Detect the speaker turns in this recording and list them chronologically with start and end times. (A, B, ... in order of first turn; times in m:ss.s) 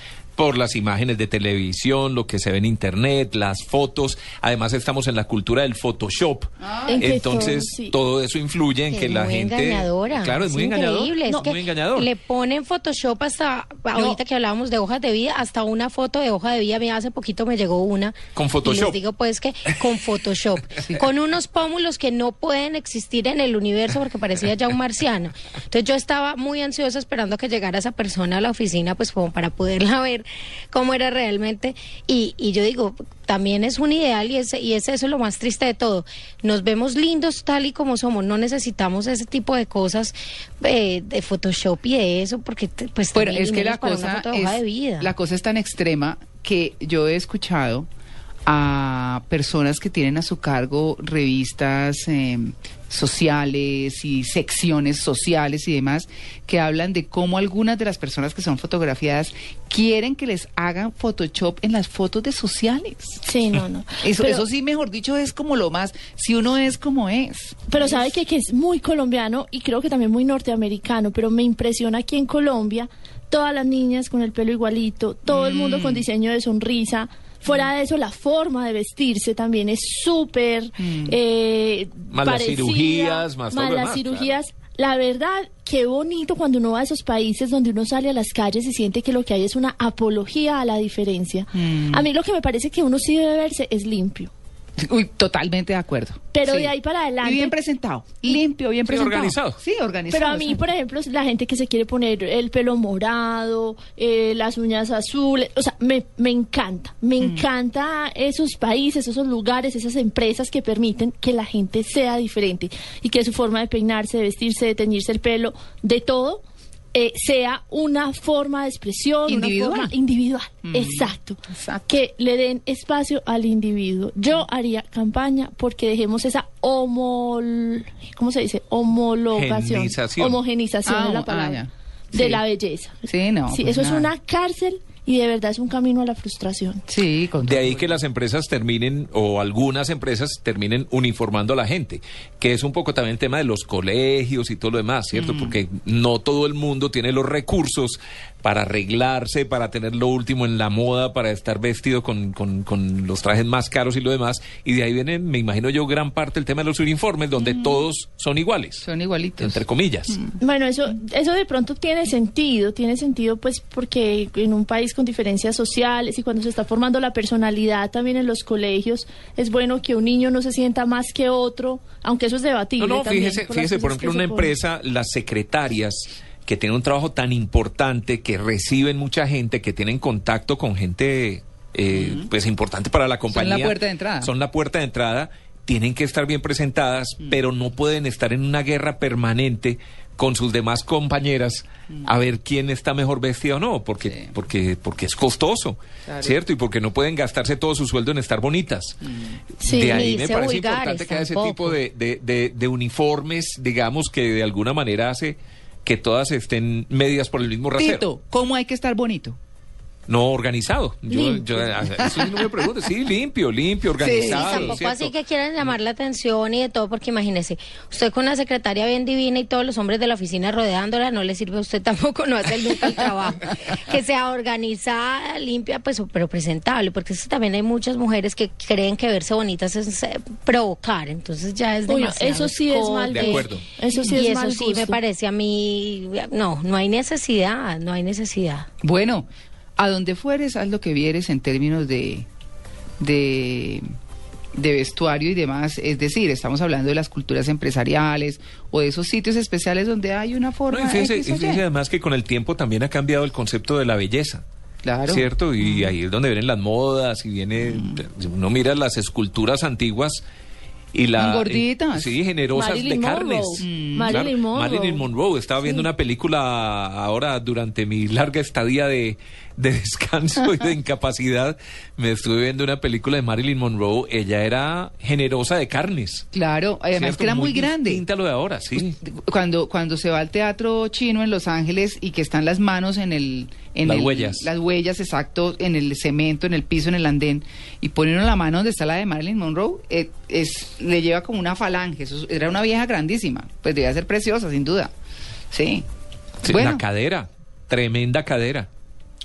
0:00.4-0:12.1 A
0:06.6-0:07.2 B
0:06.9-0:08.0 C
0:08.9-0:45.1 D
0:11.2-0:11.5 C
0:18.3-0:19.0 A
0:20.8-0:21.0 B
0:43.1-0:47.9 B
0:48.4-1:03.2 B
1:03.2-1:04.4 C
1:04.0-1:08.1 B
1:07.7-1:34.3 C
1:15.3-1:16.0 B
1:20.8-1:21.2 B
1:22.1-1:24.3 A
1:31.5-1:32.0 B
1:34.8-1:40.6 B
1:36.3-1:37.5 C
1:38.9-1:39.6 A
1:40.1-1:56.4 C
1:47.2-1:47.4 B
1:56.9-2:16.8 C
1:59.3-1:59.9 B
2:00.6-2:01.9 B
2:09.3-2:10.4 A
2:10.8-2:12.4 B
2:13.0-2:14.1 B
2:16.9-2:18.0 B
2:17.4-2:38.8 A
2:25.1-2:25.5 B
2:37.4-2:37.8 B
2:38.8-2:40.4 B
2:39.4-2:40.2 A
2:40.4-2:54.5 C
2:52.8-3:19.0 A
3:01.9-3:02.3 B
3:03.3-3:04.3 B
3:14.0-3:14.3 B
3:16.0-3:16.4 B
3:19.0-3:19.4 B
3:19.6-3:20.1 C
3:19.6-3:28.0 A
3:19.8-3:21.8 D
3:27.8-3:29.4 B
3:30.1-3:35.7 A
3:31.1-3:31.5 D
3:32.0-3:32.5 B
3:34.0-3:34.8 B
3:34.1-3:53.4 D
3:51.9-3:55.0 C
3:53.1-3:53.7 A
3:54.0-3:58.7 D
3:58.8-3:59.3 B
3:59.8-4:02.3 B
4:03.0-4:03.8 B
4:04.5-4:11.6 B
4:10.7-4:14.4 A
4:14.8-4:15.9 B
4:15.1-4:20.2 A
4:17.6-4:18.0 B
4:20.9-4:36.2 A
4:21.2-4:22.2 B
4:22.5-4:25.0 C
4:23.6-4:24.3 B
4:36.3-4:38.0 B
4:36.9-4:39.0 A
4:38.8-4:54.9 B
4:43.8-4:44.5 A
4:55.5-4:55.8 B
4:56.4-4:56.8 B
4:56.4-4:58.7 A